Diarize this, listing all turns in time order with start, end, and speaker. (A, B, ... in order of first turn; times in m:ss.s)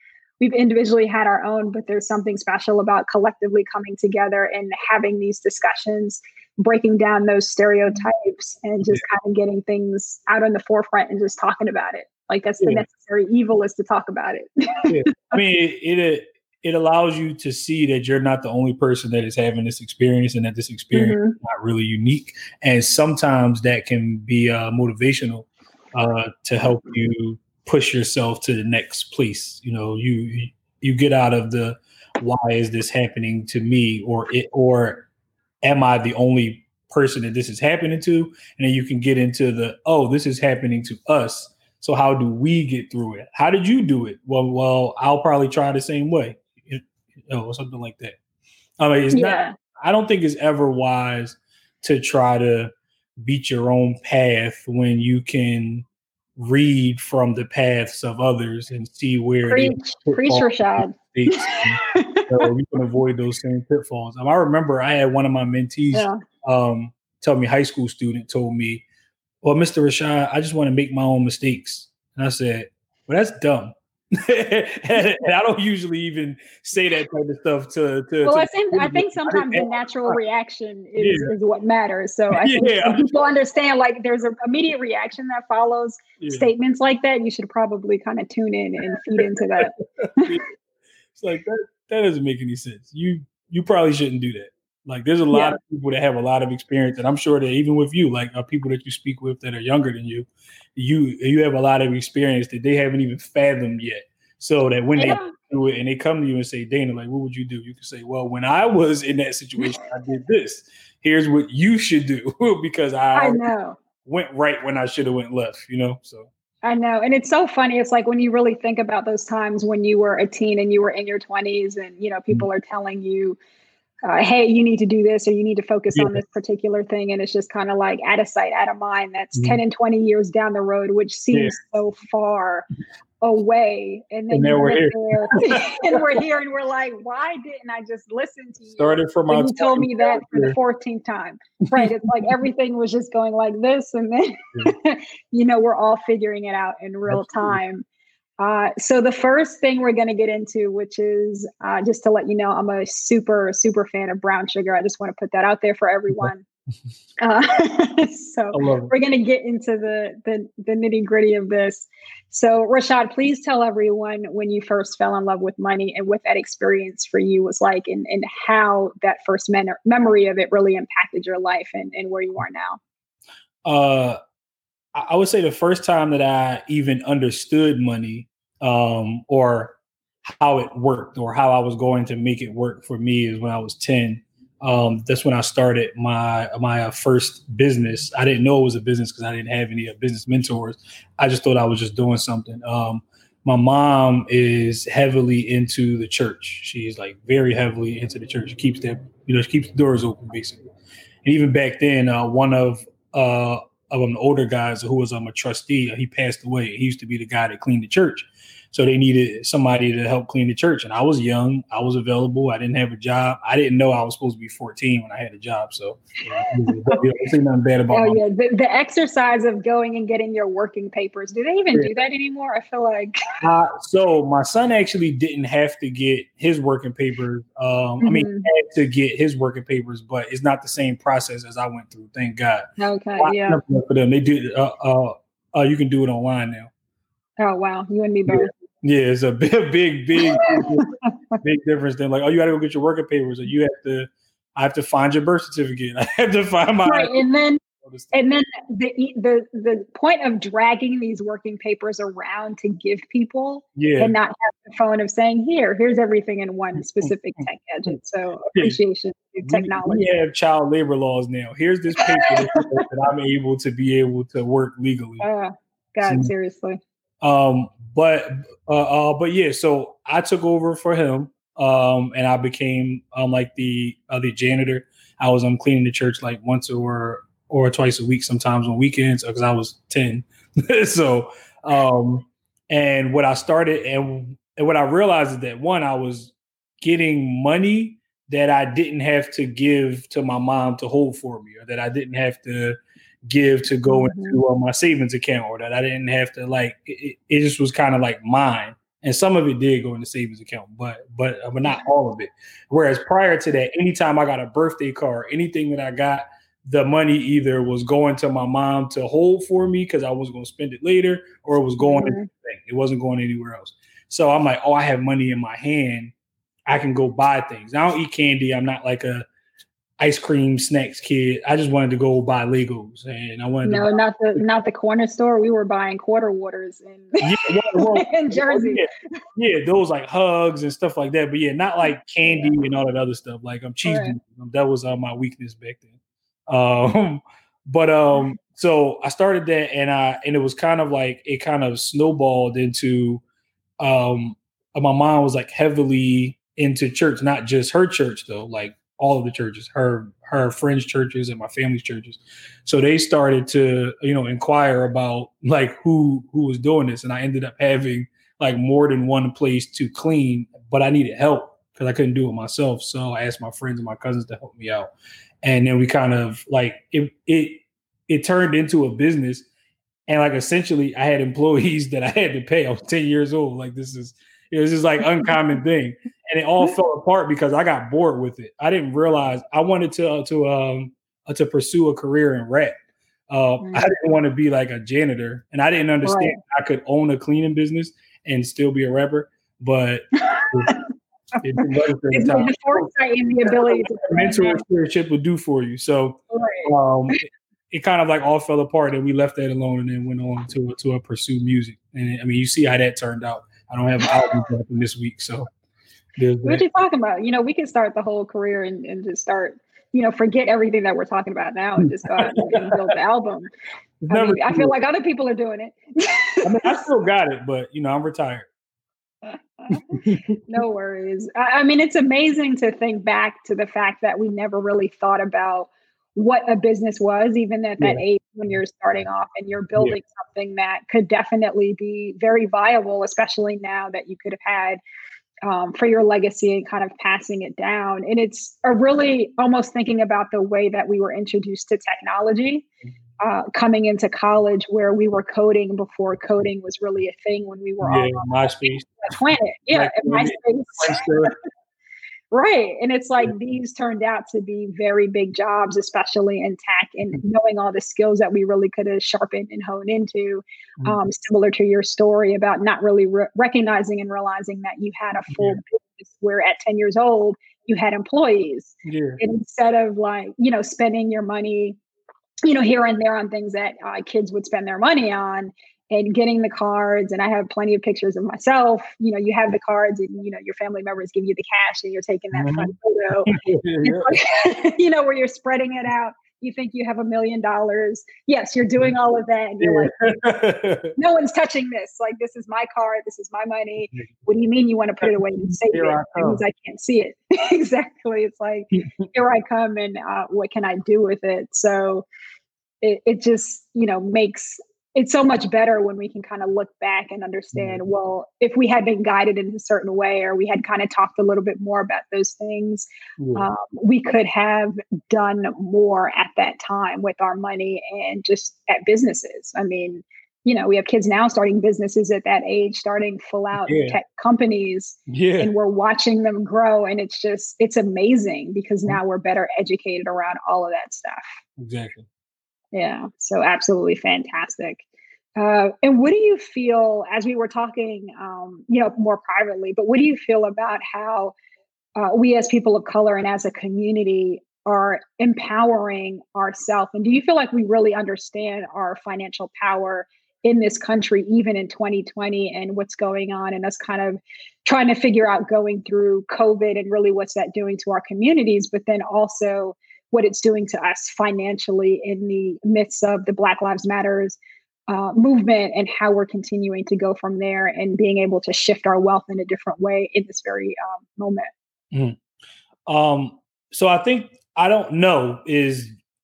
0:00.4-0:15.4 A
0:12.6-0:12.8 B
0:14.9-0:35.1 B
0:20.9-0:21.4 A
0:35.6-0:48.2 B
0:48.8-0:52.7 B
0:49.1-0:49.5 A
0:53.2-0:55.9 B
0:56.4-1:08.8 B
0:59.5-1:02.5 A
1:05.9-1:06.2 A
1:09.4-1:20.2 B
1:18.2-1:30.4 A
1:21.0-1:21.3 B
1:22.3-1:23.0 B
1:26.2-1:26.5 B
1:28.9-1:30.4 B
1:31.2-1:53.4 B
1:35.3-1:35.6 A
1:45.0-1:45.4 A
1:53.1-1:53.8 A
1:54.0-1:56.3 B
1:56.6-2:03.4 A
2:04.0-2:12.7 A
2:05.9-2:06.2 B
2:13.2-2:27.8 A
2:14.3-2:16.1 B
2:18.8-2:20.6 B
2:27.1-2:27.6 B
2:28.4-2:36.4 A
2:37.2-2:52.8 A
2:38.5-2:38.9 B
2:53.6-2:54.2 B
2:55.0-3:20.6 B
3:21.2-3:38.2 B
3:36.4-3:37.0 A
3:37.9-3:43.2 A
3:43.4-3:56.7 B
3:48.0-3:48.5 A
3:52.8-3:53.6 A
3:57.4-3:58.5 A
3:58.3-4:07.2 B
4:00.2-4:01.4 A
4:06.8-4:07.6 A
4:07.8-4:08.2 B
4:08.1-4:20.0 A
4:13.8-4:14.2 B
4:19.4-4:25.2 B
4:22.0-4:22.8 A
4:25.2-4:26.8 A
4:26.0-4:26.3 B
4:27.2-5:16.1 B
4:53.9-4:54.4 A
5:11.8-5:12.3 A
5:16.7-5:19.3 B
5:20.0-5:24.4 B
5:23.6-5:28.8 A
5:27.2-5:36.0 B
5:31.9-5:32.5 A
5:33.8-5:34.2 A
5:36.5-5:43.2 B
5:43.8-6:04.9 B
6:05.4-6:09.5 B
6:10.1-6:22.7 B
6:23.3-6:30.8 B
6:23.6-6:23.9 A
6:26.0-6:26.4 A
6:30.2-6:30.8 A
6:31.4-6:32.9 B
6:31.6-6:34.6 A
6:33.4-6:45.5 B
6:36.3-6:37.2 A
6:46.2-6:46.6 B
6:46.4-6:53.5 A
6:51.8-6:52.9 B
6:54.0-6:54.7 B
6:54.1-6:56.9 A
6:56.4-6:58.5 B
6:59.2-7:14.8 A
6:59.7-7:00.4 B
7:15.4-7:22.7 A
7:23.2-7:28.3 A
7:27.8-7:29.0 B
7:28.9-7:31.3 A
7:29.7-7:31.4 B
7:32.3-7:51.8 A
7:45.3-7:45.6 B
7:48.8-7:49.2 B
7:52.4-8:09.9 A
8:02.3-8:02.7 B
8:03.3-8:04.1 B
8:09.6-8:11.0 B
8:11.0-8:22.1 A
8:15.1-8:16.4 B
8:22.8-8:51.3 A
8:27.5-8:27.8 B
8:33.2-8:33.5 B
8:43.6-8:44.0 B
8:45.1-8:45.5 B
8:51.6-8:52.1 B
8:52.7-8:54.8 A
8:55.4-9:01.4 A
9:02.0-9:24.4 A
9:24.9-9:31.5 A
9:31.9-9:32.2 B
9:32.9-9:36.0 B